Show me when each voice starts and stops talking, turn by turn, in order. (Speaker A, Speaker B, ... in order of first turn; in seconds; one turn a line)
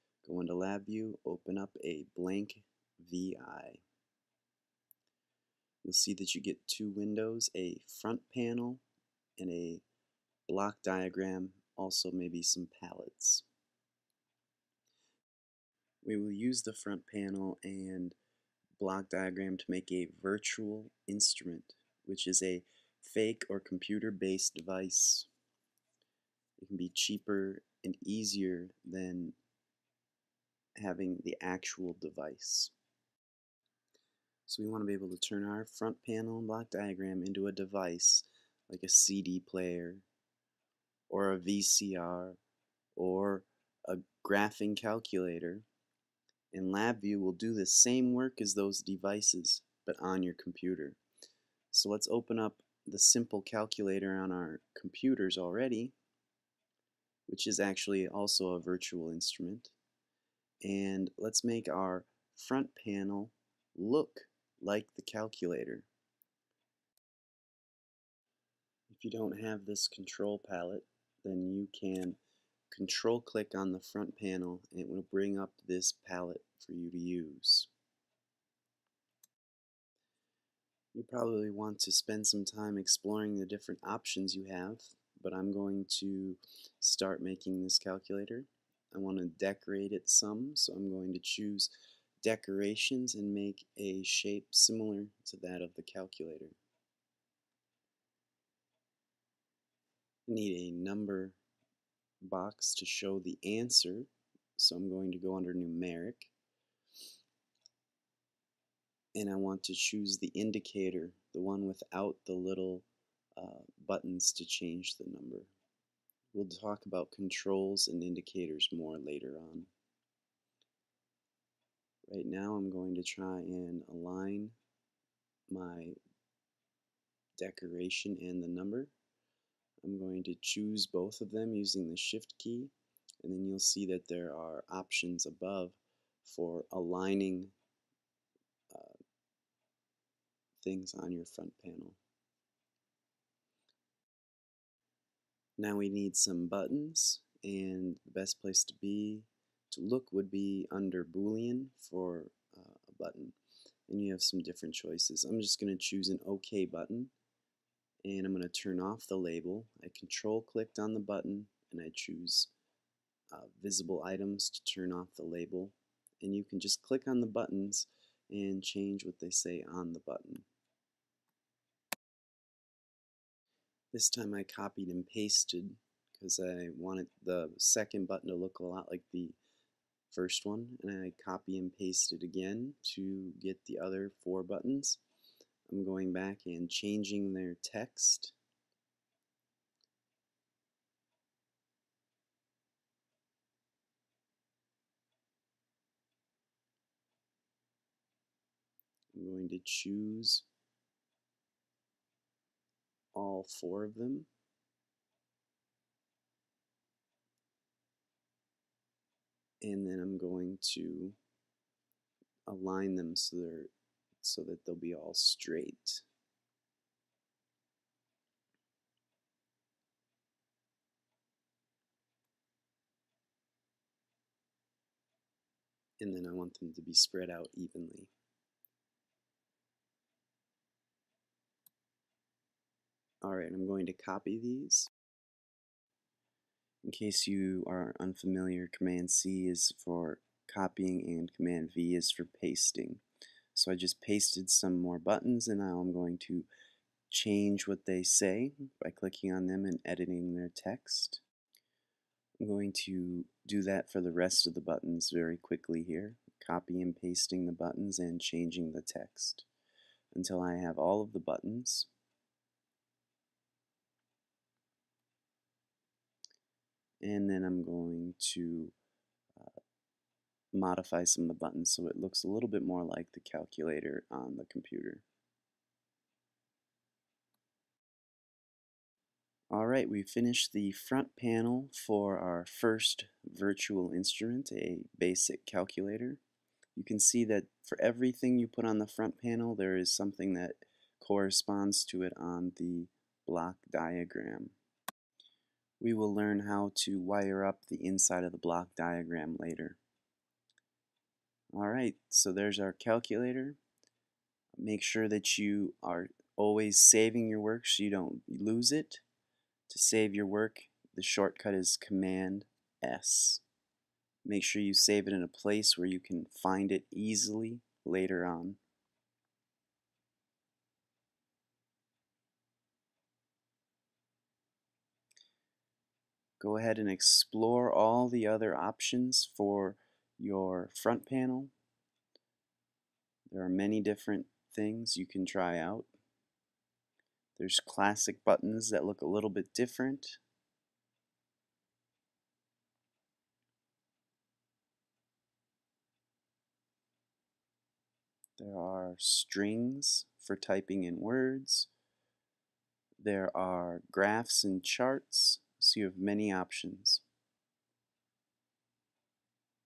Speaker A: 0.2-3.8
Speaker A: 5.8-8.8
Speaker A: 9.4-9.8
Speaker A: 10.5-13.4
Speaker A: 16.0-18.2
Speaker A: 18.8-25.3
Speaker A: 26.6-29.4
Speaker A: 30.8-32.7
Speaker A: 34.5-40.0
Speaker A: 41.1-42.4
Speaker A: 43.0-45.7
Speaker A: 46.5-51.0
Speaker A: 51.7-56.0
Speaker A: 57.3-59.8
Speaker A: 60.6-65.9
Speaker A: 68.9-72.2
Speaker A: 72.7-77.7
Speaker A: 80.9-91.7
Speaker A: 92.2-96.6
Speaker A: 100.3-101.4
Speaker A: 102.2-106.3
Speaker A: 109.2-112.9
Speaker A: 113.4-115.5
Speaker A: 116.3-119.7
Speaker A: 122.1-124.5
Speaker A: 125.5-126.0
Speaker A: 127.4-128.9
Speaker A: 129.8-137.5
Speaker A: 138.7-139.0
Speaker A: 140.6-142.0
Speaker A: 145.6-153.4
Speaker A: 153.9-157.1
Speaker A: 158.1-162.5
Speaker A: 163.3-170.4
Speaker A: 173.9-179.4
Speaker A: 180.1-185.0
Speaker A: 185.7-188.3
Speaker A: 199.1-200.5
Speaker A: 203.1-204.3
Speaker A: 209.6-211.2
Speaker A: 212.5-213.7
Speaker A: 214.2-216.1
Speaker A: 226.0-228.1
Speaker A: 233.2-234.9
Speaker A: 236.8-243.0
Speaker A: 243.5-246.5
Speaker A: 247.1-251.2
Speaker A: 252.4-259.5
Speaker A: 260.1-261.9
Speaker A: 267.0-268.8
Speaker A: 270.5-275.1
Speaker A: 279.5-286.2
Speaker A: 286.8-294.5
Speaker A: 295.8-299.8
Speaker A: 301.5-303.6
Speaker A: 304.6-309.0
Speaker A: 309.7-313.4
Speaker A: 314.2-318.6
Speaker A: 326.4-331.5
Speaker A: 333.3-335.9
Speaker A: 337.4-340.2
Speaker A: 348.4-351.7
Speaker A: 353.0-357.0